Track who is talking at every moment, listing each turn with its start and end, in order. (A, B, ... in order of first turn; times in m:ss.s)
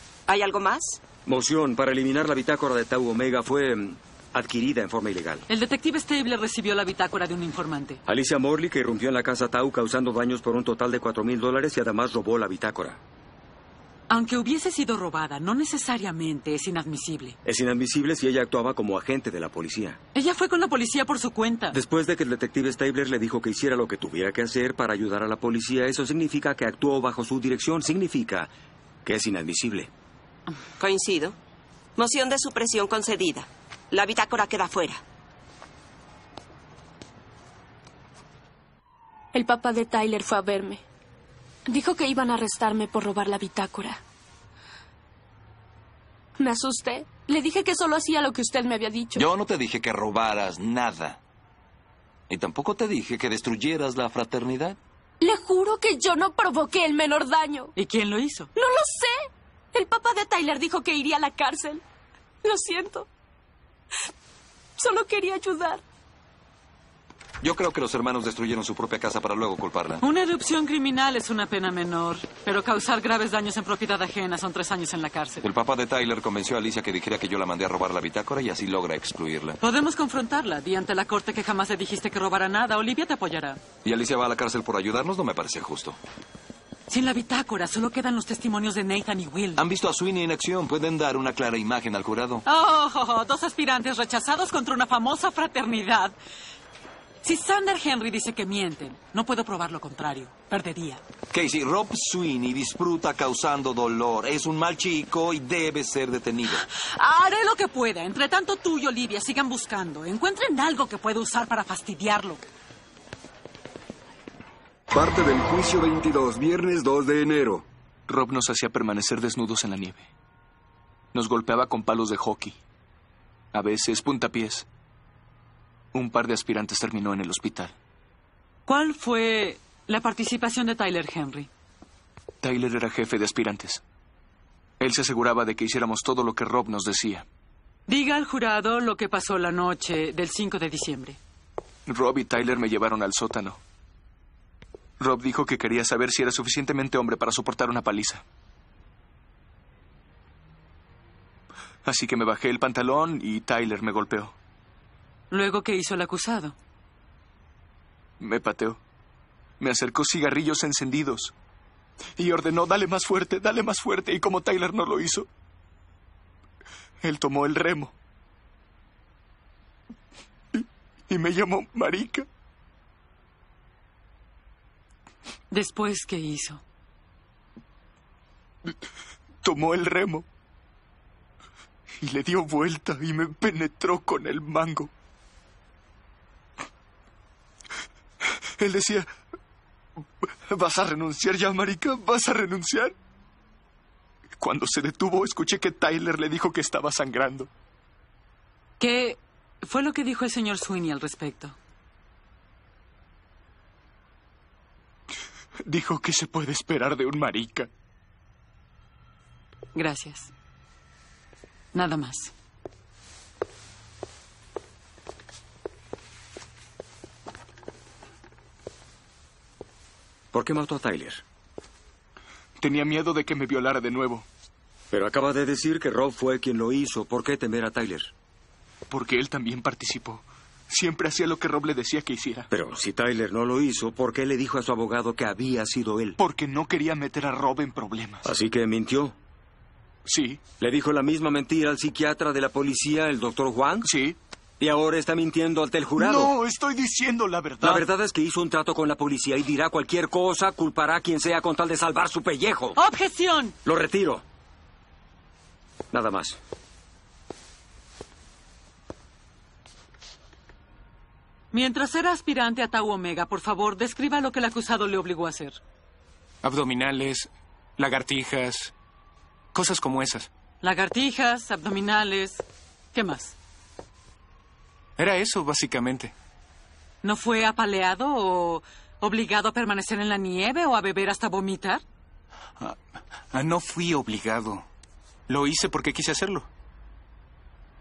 0:00.3-0:01.0 A
0:01.2-0:05.4 B
0:05.5-0:08.0 C
0:08.0-0:13.0 B
0:14.1-0:17.4 C
0:17.4-0:20.0 B
0:20.1-0:21.8 C
0:21.7-0:28.5 B
0:29.0-0:29.9 B
0:30.8-0:31.4 A
0:32.0-0:35.0 A
0:39.3-0:40.8 D
0:41.7-0:44.0 D
0:46.4-0:49.3 D
0:49.1-0:51.2 E
0:52.3-0:54.8 E
0:55.2-0:57.7 D
0:57.8-0:58.5 C
0:58.5-1:01.8 D
1:02.4-1:03.1 D
1:04.8-1:05.8 D
1:07.4-1:10.0 E
1:10.0-1:15.5 C
1:15.4-1:19.6 E
1:19.6-1:23.6 C
1:23.8-1:26.0 E
1:26.9-1:29.6 C
1:29.6-1:32.4 E
1:32.4-1:36.1 C
1:37.2-1:41.0 C
1:41.3-1:46.6 E
1:46.6-1:52.4 C
1:54.9-1:57.6 F
1:58.1-2:00.1 G
2:01.1-2:02.6 G
2:03.5-2:04.6 G
2:05.9-2:07.7 G
2:08.6-2:11.5 C
2:12.4-2:13.8 G
2:14.8-2:17.2 G
2:17.9-2:21.2 C
2:21.9-2:23.6 G
2:25.0-2:28.2 G
2:31.8-2:34.4 G
2:35.3-2:36.6 C
2:38.2-2:38.8 G
2:39.6-2:41.3 G
2:42.2-2:45.3 G
2:47.0-2:47.9 G
2:50.5-2:52.3 G
2:55.5-2:56.6 C
2:59.4-3:00.2 G
3:02.0-3:04.9 G
3:08.6-3:09.1 G
3:10.5-3:12.9 G
3:14.4-3:17.5 G
3:18.8-3:21.6 C
3:25.6-3:27.7 G
3:29.7-3:30.3 C
3:31.7-3:32.3 C
3:40.3-3:41.2 B
3:42.6-3:44.2 G
3:44.9-3:48.1 B
3:48.9-3:52.5 G
3:52.5-3:56.2 B
3:56.2-3:58.2 G
3:58.2-3:59.2 B
4:00.0-4:00.4 G
4:00.6-4:03.9 B
4:03.8-4:04.2 G
4:04.6-4:06.4 B
4:06.0-4:07.9 G
4:07.6-4:12.8 B
4:12.8-4:13.5 C
4:13.6-4:14.2 B
4:15.9-4:16.4 B
4:21.5-4:25.6 C
4:26.4-4:28.7 H
4:29.5-4:30.3 H
4:30.6-4:32.4 C
4:32.9-4:33.4 C
4:35.0-4:36.1 H
4:37.0-4:41.8 C
4:43.3-4:44.6 H
4:45.3-4:46.5 H